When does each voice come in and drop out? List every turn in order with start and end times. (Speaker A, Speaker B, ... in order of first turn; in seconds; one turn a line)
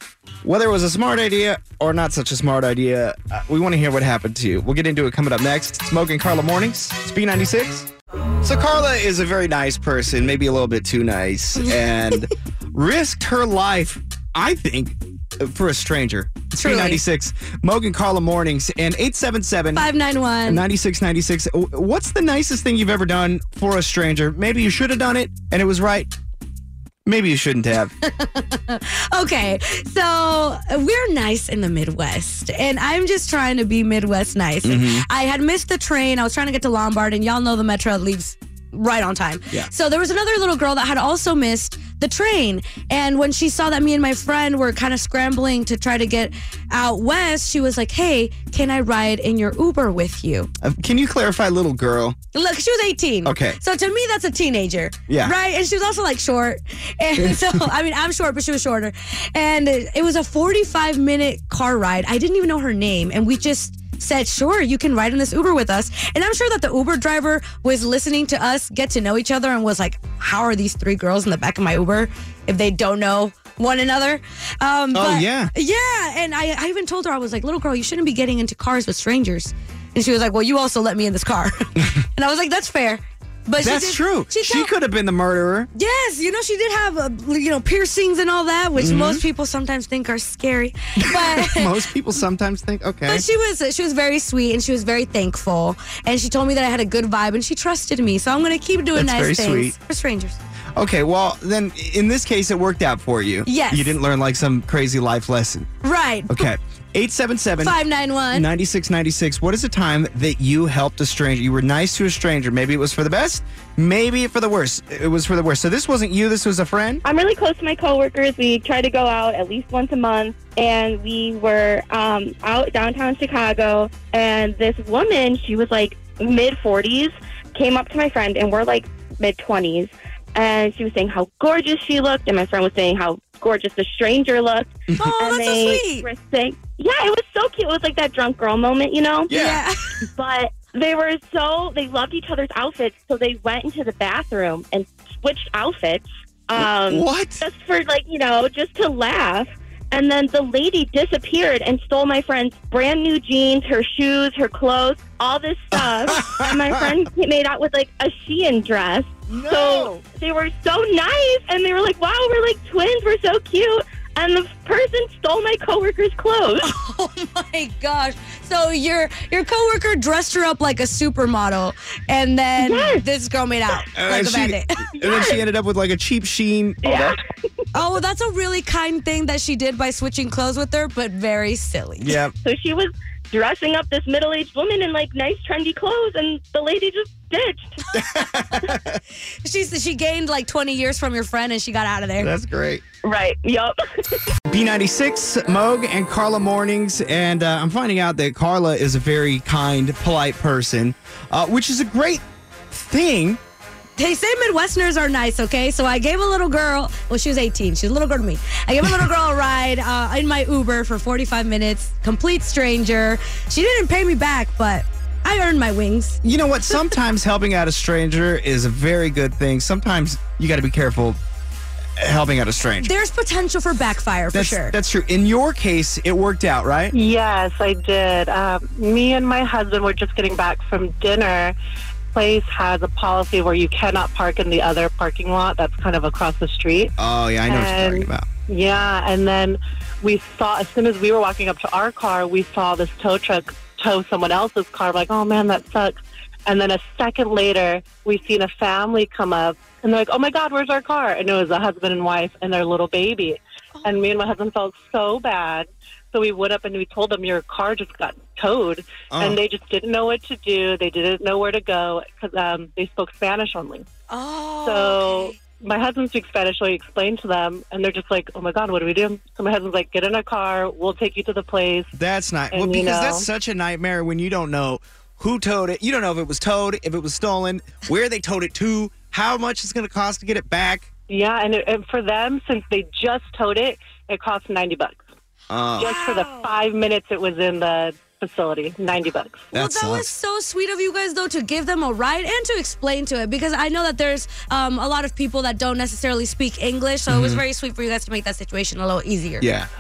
Speaker A: 0.4-7.9
Speaker A: 8.4-19.9
Speaker B: 16.6-17.0
Speaker B: 19.7-20.6
Speaker A: 20.4-26.1
Speaker A: 27.0-27.9
Speaker B: 28.1-50.5
Speaker A: 34.6-35.0
Speaker A: 50.6-52.1
Speaker B: 52.3-84.7
Speaker A: 53.2-53.6
Speaker A: 55.1-55.3
Speaker A: 74.9-75.5
Speaker A: 83.6-85.7
Speaker B: 85.7-91.7
Speaker A: 88.8-89.2
Speaker A: 91.0-93.2
Speaker B: 93.1-100.4
Speaker A: 98.9-99.7
Speaker A: 100.8-105.7
Speaker B: 103.4-104.0
Speaker B: 105.8-106.5
Speaker A: 106.3-117.0
Speaker B: 107.6-108.5
Speaker C: 117.0-139.3
Speaker A: 134.9-135.1
Speaker B: 134.9-136.1
Speaker A: 139.3-139.7
Speaker B: 139.3-139.7
Speaker C: 140.1-166.6
Speaker A: 146.6-147.4
Speaker A: 155.7-157.0
Speaker A: 159.3-159.9
Speaker B: 166.6-174.9
Speaker C: 172.6-173.0
Speaker A: 173.9-177.2
Speaker C: 175.0-175.4
Speaker C: 176.8-177.2
Speaker B: 177.7-182.1
Speaker A: 182.0-182.3
Speaker C: 182.4-187.8
Speaker A: 187.9-188.9
Speaker B: 189.4-192.3
Speaker A: 192.2-192.8
Speaker C: 193.0-194.2
Speaker A: 194.5-202.2
Speaker A: 202.7-203.4
Speaker B: 204.0-216.2
Speaker A: 216.2-221.2
Speaker A: 222.0-222.9
Speaker B: 222.8-224.8
Speaker A: 224.3-226.9
Speaker D: 226.9-231.5
Speaker D: 232.1-236.9
Speaker A: 237.0-238.3
Speaker D: 237.4-263.9
Speaker B: 253.8-254.0
Speaker A: 259.1-259.4
Speaker B: 264.1-265.3
Speaker D: 264.6-271.9
Speaker A: 271.9-280.9
Speaker D: 272.5-273.3
Speaker D: 281.1-285.0
Speaker A: 285.5-285.9
Speaker D: 285.8-289.5
Speaker B: 285.8-286.5
Speaker A: 289.5-290.1
Speaker B: 289.5-299.5
Speaker A: 297.1-297.4
Speaker A: 299.4-299.7